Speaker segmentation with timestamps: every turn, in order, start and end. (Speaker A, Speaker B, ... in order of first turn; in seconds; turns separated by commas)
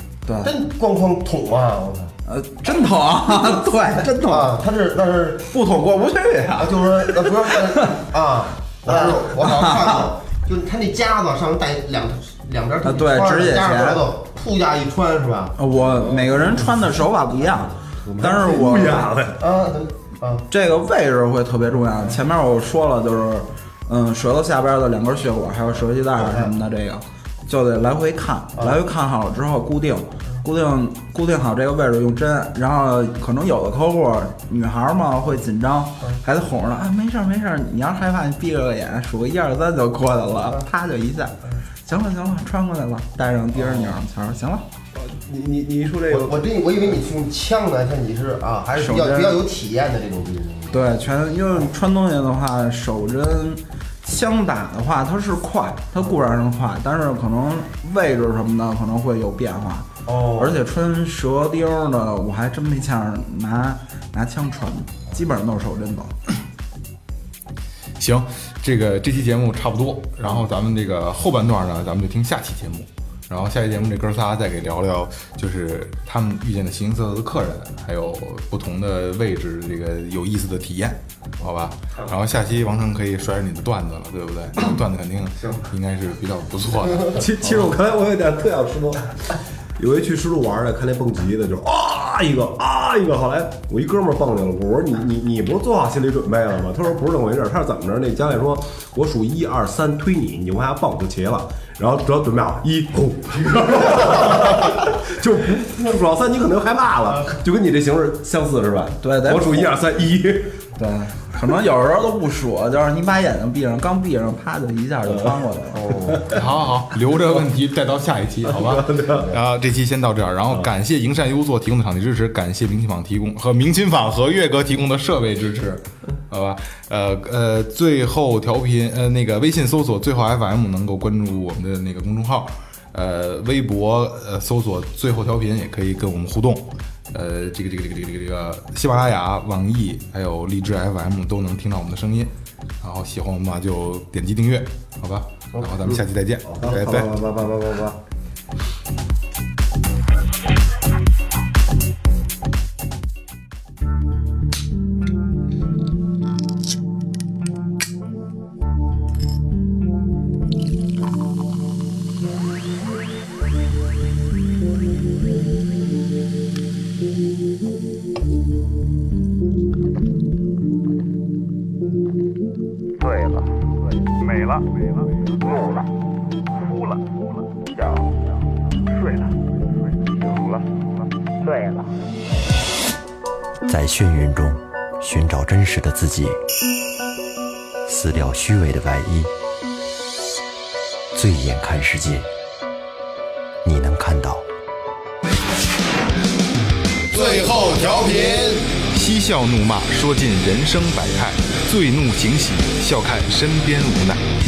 Speaker A: 0.3-0.5, Speaker B: 0.4-2.1, Speaker A: 2.3-4.6, Speaker B: 4.2-5.5, Speaker A: 5.5-8.0, Speaker B: 6.6-15.6, Speaker A: 9.3-10.1, Speaker A: 12.8-14.0, Speaker A: 15.6-19.2, Speaker C: 15.7-17.0, Speaker C: 17.9-19.4, Speaker B: 19.4-20.5, Speaker A: 20.5-44.6, Speaker B: 26.2-26.5, Speaker B: 28.6-28.8, Speaker C: 44.9-46.4, Speaker B: 46.1-50.9, Speaker A: 48.7-49.4, Speaker A: 50.7-66.2, Speaker B: 60.1-60.6, Speaker D: 68.0-87.3, Speaker C: 87.1-89.1, Speaker C: 89.8-110.6, Speaker A: 109.0-109.8, Speaker A: 110.8-116.0, Speaker B: 115.8-116.2, Speaker C: 115.9-116.4, Speaker D: 116.3-147.2, Speaker C: 118.6-119.2, Speaker B: 146.6-147.9, Speaker E: 173.0-173.4, Speaker E: 174.1-174.8, Speaker E: 175.4-175.7, Speaker E: 177.8-178.0, Speaker E: 178.9-179.3, Speaker E: 180.1-180.6, Speaker E: 181.5-181.8, Speaker F: 183.7-186.4, Speaker F: 187.9-189.3, Speaker F: 191.1-192.3, Speaker F: 193.6-194.5, Speaker D: 197.1-204.2, Speaker B: 197.2-198.6